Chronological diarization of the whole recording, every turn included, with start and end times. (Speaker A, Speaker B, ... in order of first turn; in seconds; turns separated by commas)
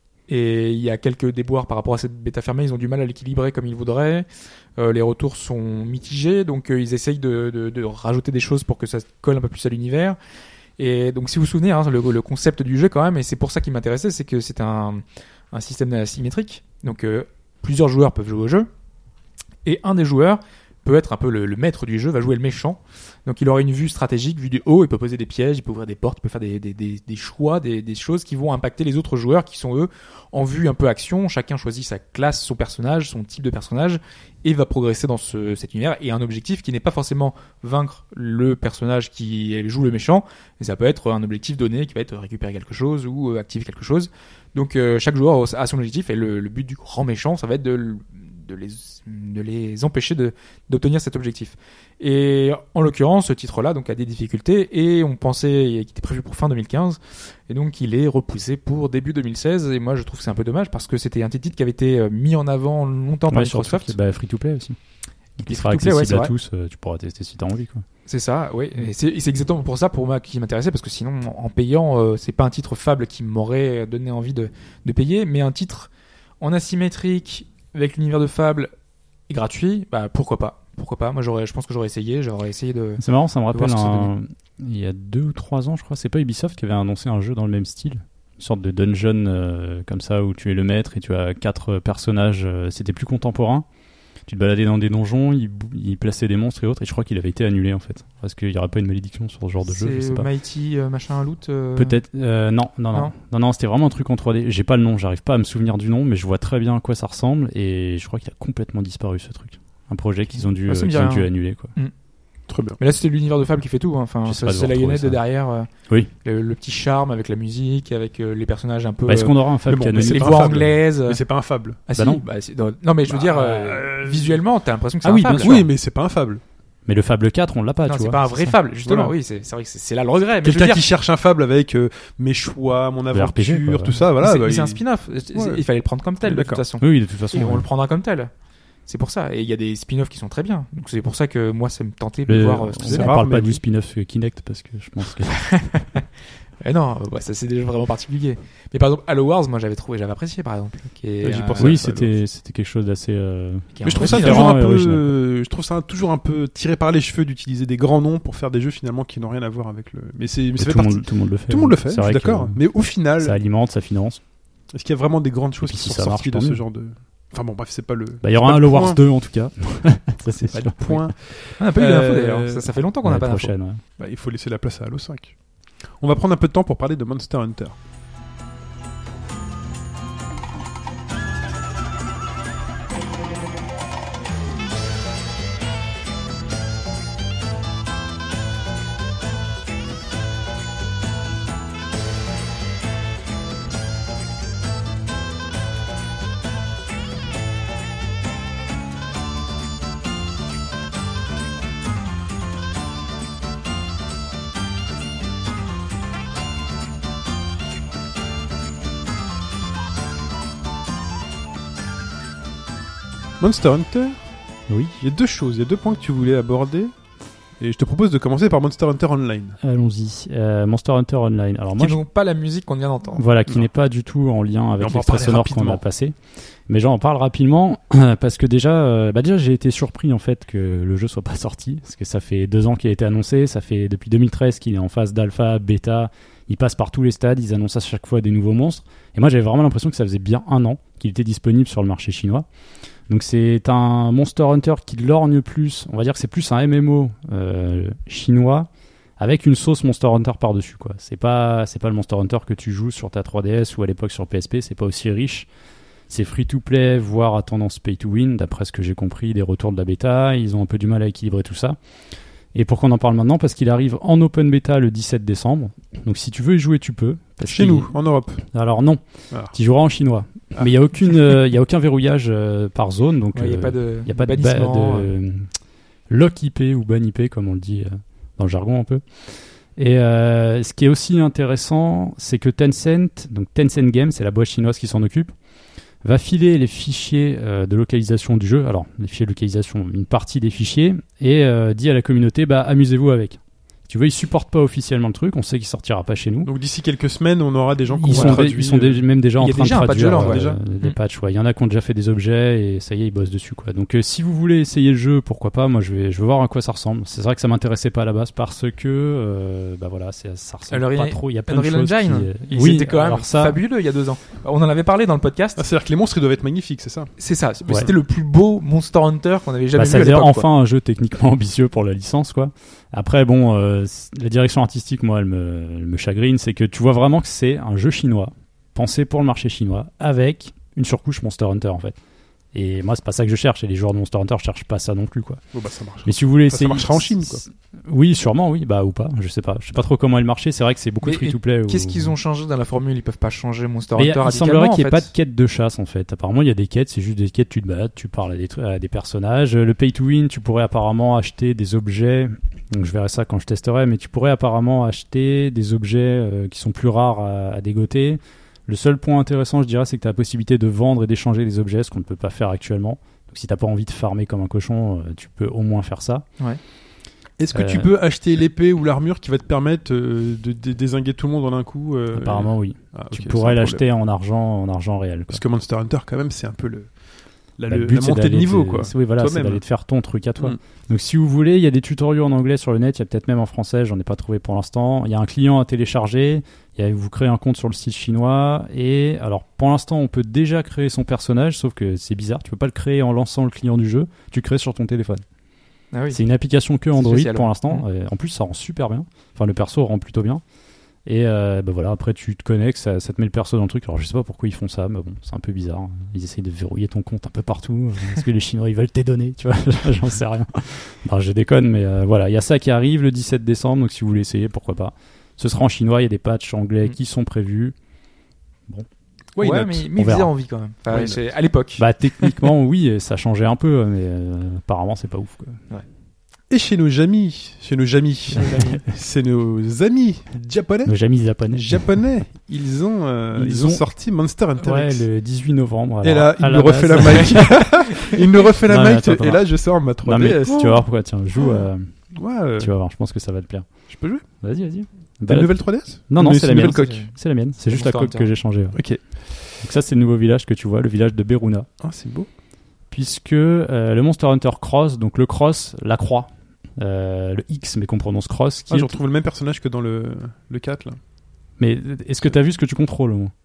Speaker A: 0.3-10.2, Speaker A: 10.8-18.7, Speaker A: 19.6-64.0, Speaker B: 63.3-64.8, Speaker B: 65.4-67.8, Speaker A: 65.4-66.3, Speaker A: 68.1-78.7, Speaker A: 79.3-84.1, Speaker B: 83.0-93.6, Speaker B: 94.2-100.3, Speaker A: 99.6-102.0, Speaker B: 101.8-111.7, Speaker A: 110.3-111.9, Speaker C: 112.5-112.8, Speaker A: 112.8-121.2, Speaker B: 114.2-115.2, Speaker B: 119.0-120.7, Speaker C: 119.7-121.8, Speaker A: 121.8-125.6, Speaker B: 122.0-122.2, Speaker C: 123.1-124.4, Speaker B: 123.3-123.8, Speaker B: 125.0-125.7, Speaker C: 125.4-126.4, Speaker B: 126.8-128.6, Speaker A: 127.8-130.9, Speaker C: 128.8-129.1, Speaker C: 130.4-134.8, Speaker B: 133.1-134.0, Speaker A: 134.2-138.3, Speaker C: 135.3-135.6, Speaker C: 136.2-136.6, Speaker B: 136.8-137.7, Speaker A: 138.8-143.2, Speaker B: 142.3-145.5, Speaker C: 142.8-143.6, Speaker A: 145.4-146.0, Speaker A: 146.6-151.8, Speaker C: 151.2-152.2, Speaker B: 151.6-155.2, Speaker A: 153.7-154.6, Speaker C: 153.8-163.4, Speaker B: 160.6-164.2, Speaker C: 164.7-169.0, Speaker B: 165.6-166.6, Speaker B: 168.2-171.1, Speaker C: 170.5-172.7, Speaker A: 171.6-173.5, Speaker B: 173.0-173.8, Speaker C: 174.0-175.4, Speaker C: 175.9-177.8, Speaker C: 213.4-214.3, Speaker B: 214.7-215.0, Speaker C: 215.0-216.9, Speaker C: 217.6-219.6, Speaker B: 219.6-222.0, Speaker A: 221.8-223.2, Speaker B: 223.2-226.2, Speaker C: 224.8-225.8, Speaker B: 226.7-242.4, Speaker B: 243.1-255.5, Speaker B: 256.1-261.8, Speaker B: 262.5-267.9, Speaker C: 267.4-268.4, Speaker B: 268.5-275.5, Speaker C: 270.5-271.4, Speaker A: 273.3-275.1, Speaker B: 276.1-279.0, Speaker B: 279.8-285.3, Speaker B: 286.0-296.5, Speaker C: 296.4-299.0, Speaker B: 297.9-313.6, Speaker A: 298.1-298.4, Speaker A: 299.4-301.0, Speaker C: 300.1-300.6, Speaker A: 310.7-315.6, Speaker C: 315.6-317.1, Speaker A: 317.2-320.5, Speaker B: 319.7-331.9, Speaker B: 332.5-335.4, Speaker C: 335.5-337.4, Speaker B: 336.0-342.1, Speaker A: 341.0-345.1, Speaker B: 344.0-366.2, Speaker C: 367.4-373.8, Speaker B: 367.5-367.9, Speaker B: 372.1-375.4, Speaker C: 375.3-377.0, Speaker C: 377.5-379.6, Speaker B: 377.7-395.2, Speaker A: 395.9-396.2, Speaker B: 396.1-400.4, Speaker A: 396.9-397.8, Speaker B: 401.1-417.7, Speaker C: 419.4-419.8, Speaker A: 419.4-421.8, Speaker B: 419.9-420.3, Speaker C: 420.9-421.2, Speaker B: 421.8-425.6, Speaker C: 426.5-435.1, Speaker A: 428.4-428.7, Speaker B: 430.8-431.8, Speaker B: 433.3-433.8, Speaker B: 434.6-438.1, Speaker C: 436.0-440.8, Speaker B: 438.6-439.5, Speaker B: 440.0-443.7, Speaker C: 441.4-442.7, Speaker C: 443.9-444.2, Speaker B: 444.4-448.8, Speaker C: 445.2-447.0, Speaker A: 446.5-447.1, Speaker A: 447.7-448.3, Speaker C: 448.7-449.0, Speaker B: 449.6-451.7, Speaker C: 451.8-452.3, Speaker B: 452.9-458.9, Speaker C: 458.7-461.0, Speaker B: 461.6-463.3